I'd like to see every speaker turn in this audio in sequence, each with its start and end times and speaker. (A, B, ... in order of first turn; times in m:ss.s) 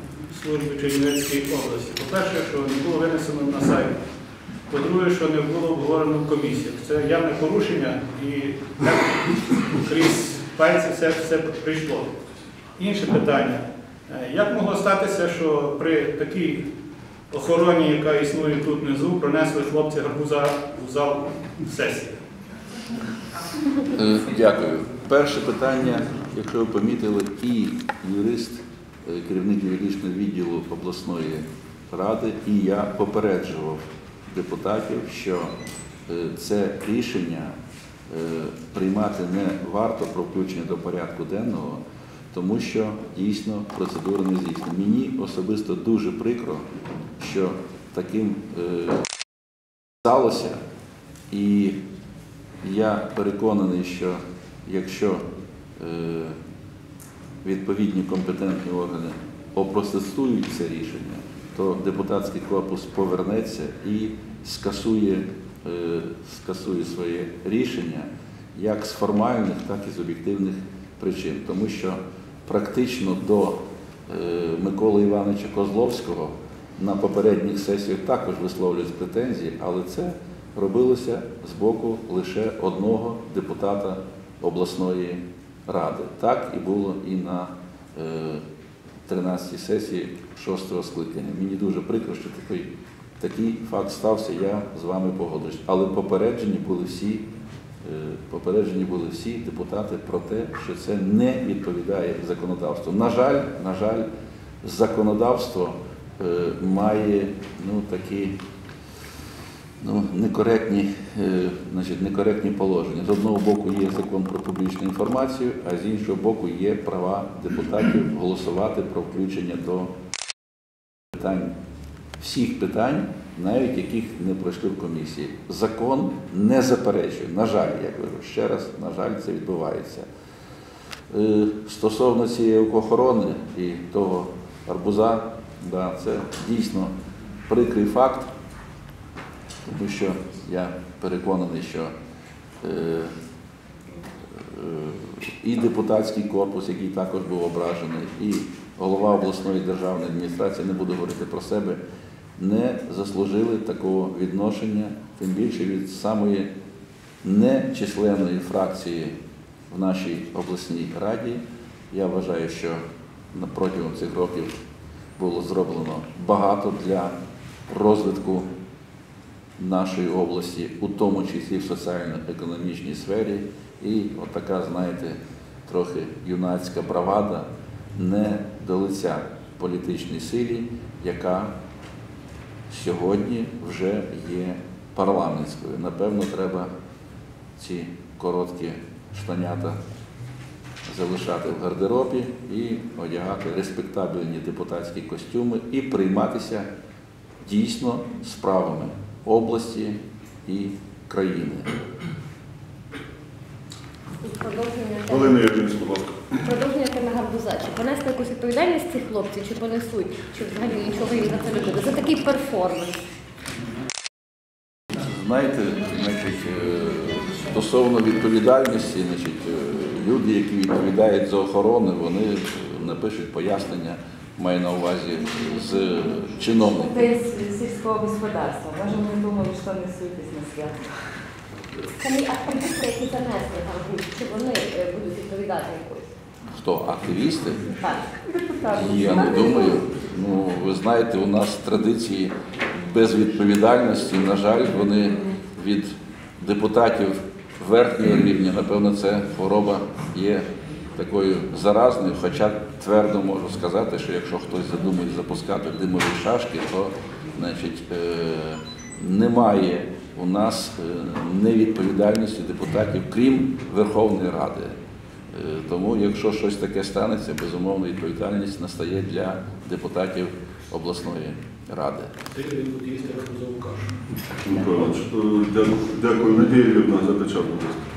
0:00.3-0:04.0 A
0:04.7-0:12.2 A
0:12.8-0:16.7 A
0:17.3-0:22.2 A
0:23.9-0:35.5 B
0:36.1-0:37.6 B
0:38.1-0:46.6 B
0:47.2-0:49.0 B
0:50.0-0:50.6 B
0:51.3-0:51.8 B
0:52.6-0:55.2 B
0:55.8-0:56.4 B
0:57.4-1:28.4 B
1:29.1-1:37.3 B
1:37.8-1:44.1 B
1:44.6-1:48.4 B
1:49.8-1:59.9 B
2:01.2-2:01.6 B
2:02.2-2:10.1 B
2:11.1-2:16.9 B
2:17.5-2:18.3 B
2:19.7-2:21.9 B
2:22.6-2:23.2 B
2:24.4-2:31.8 B
2:32.4-2:36.5 B
2:37.2-2:39.2 B
2:39.7-2:42.8 B
2:43.3-2:44.6 B
2:45.2-2:47.2 B
2:47.7-2:48.5 B
2:49.6-3:01.5 B
3:02.7-3:06.7 B
3:07.6-3:09.8 B
3:10.9-3:16.7 B
3:17.4-3:21.7 B
3:24.2-3:25.5 C
3:25.1-3:26.3 D
3:26.4-3:33.0 C
3:35.0-3:47.1 B
3:46.8-3:51.2 E
3:52.0-3:56.1 C
3:56.5-3:57.7 B
3:57.8-3:58.1 C
3:58.2-3:59.7 E
3:58.8-4:10.4 B
4:11.0-4:24.8 B
4:25.3-4:32.1 B
4:32.3-4:34.0 A
4:34.4-4:37.8 D